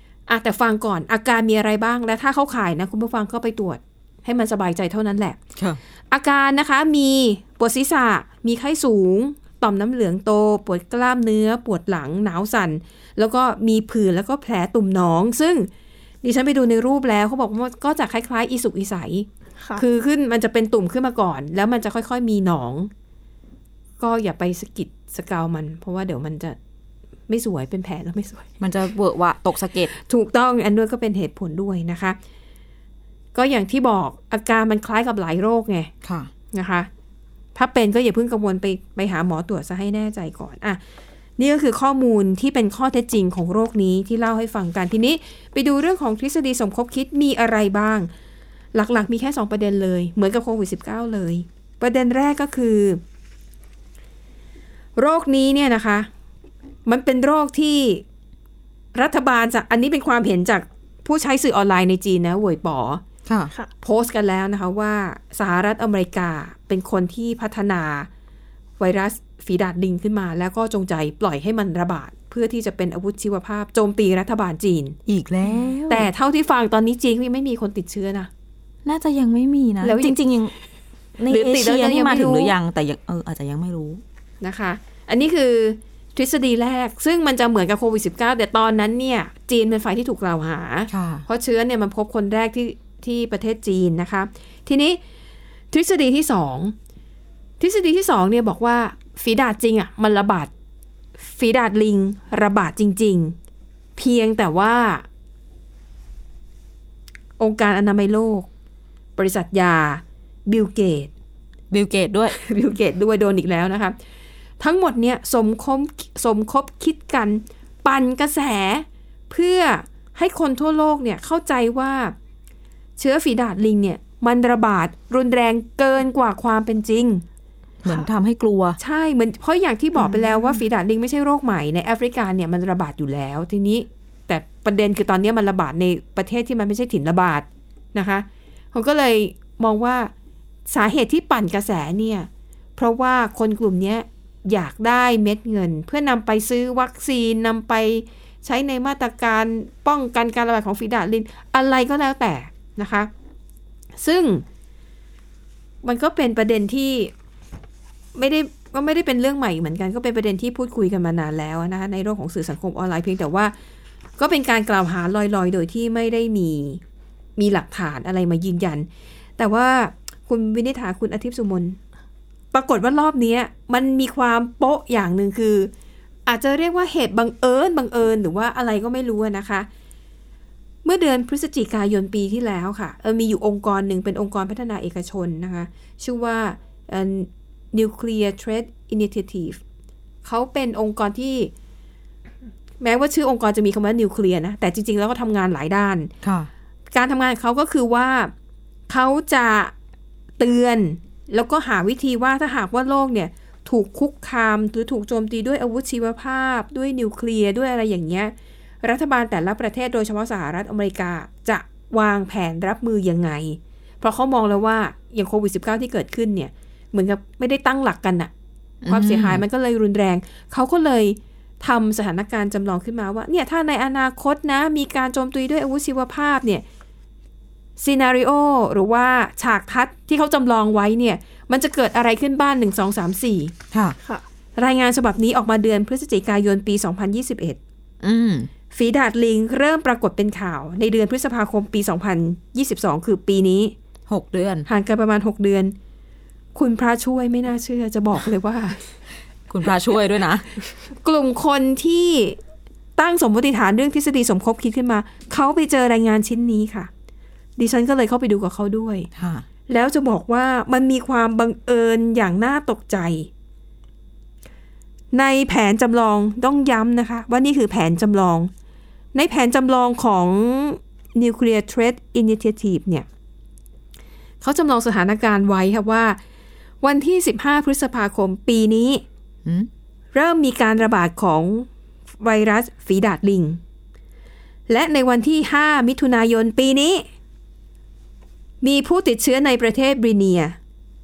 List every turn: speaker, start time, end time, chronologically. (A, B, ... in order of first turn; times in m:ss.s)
0:00.3-0:05.4 A
0:06.1-0:15.7 A
0:16.2-0:22.9 A
0:24.0-0:26.6 A
0:27.3-0:28.5 A
0:28.6-0:29.9 B
0:29.9-0:32.2 A
0:33.4-0:35.9 A
0:36.0-0:36.3 B
0:36.5-0:36.9 A
0:37.5-0:40.8 A
0:41.4-0:48.1 A
0:48.7-0:53.0 A
0:55.0-0:56.1 A
0:56.9-0:58.0 A
0:58.9-1:03.0 A
1:03.8-1:08.1 A
1:08.8-1:15.0 A
1:15.1-1:16.1 B
1:15.9-1:18.3 A
1:18.8-1:20.5 B
1:19.8-1:20.2 A
1:21.2-1:24.0 B
1:21.3-1:22.5 A
1:24.4-1:35.0 A
1:30.9-1:31.2 B
1:35.7-1:36.8 A
1:37.6-1:40.5 A
1:41.2-1:43.4 A
1:44.0-1:45.0 A
1:47.4-1:48.5 A
1:49.2-1:51.1 A
1:51.7-1:52.4 B
1:52.3-1:54.0 A
1:54.6-2:02.1 A
2:03.0-2:07.2 A
2:07.8-2:08.8 B
2:08.8-2:20.1 A
2:20.7-2:33.1 A
2:34.0-2:34.4 A
2:35.8-2:37.1 A
2:38.1-2:43.5 A
2:44.2-2:46.8 A
2:47.4-2:48.9 A
2:49.4-2:51.8 A
2:52.5-2:55.7 A
2:56.2-2:59.7 A
3:00.8-3:09.6 A
3:10.2-3:11.5 A
3:12.8-3:16.1 A
3:16.2-3:16.5 B
3:16.9-3:18.3 A
3:18.9-3:19.7 A
3:20.4-3:38.3 A
3:38.8-3:39.4 B
3:38.9-3:46.6 A
3:47.8-3:53.5 A
3:53.7-3:54.0 B
3:54.6-3:57.6 A
3:58.0-3:58.5 B
3:58.7-4:03.8 A
4:04.1-4:04.7 B
4:04.7-4:05.8 A
4:06.5-4:08.8 A
4:09.5-4:10.5 B
4:11.0-4:12.4 A
4:13.0-4:16.9 A
4:17.6-4:19.1 A
4:19.1-4:19.4 B
4:19.7-4:23.3 A
4:25.1-4:28.5 A
4:29.1-4:33.0 A
4:34.4-4:36.2 A
4:36.8-4:39.0 A
4:40.1-4:41.7 A
4:42.2-4:43.6 A
4:44.7-4:47.0 A
4:48.6-4:50.6 A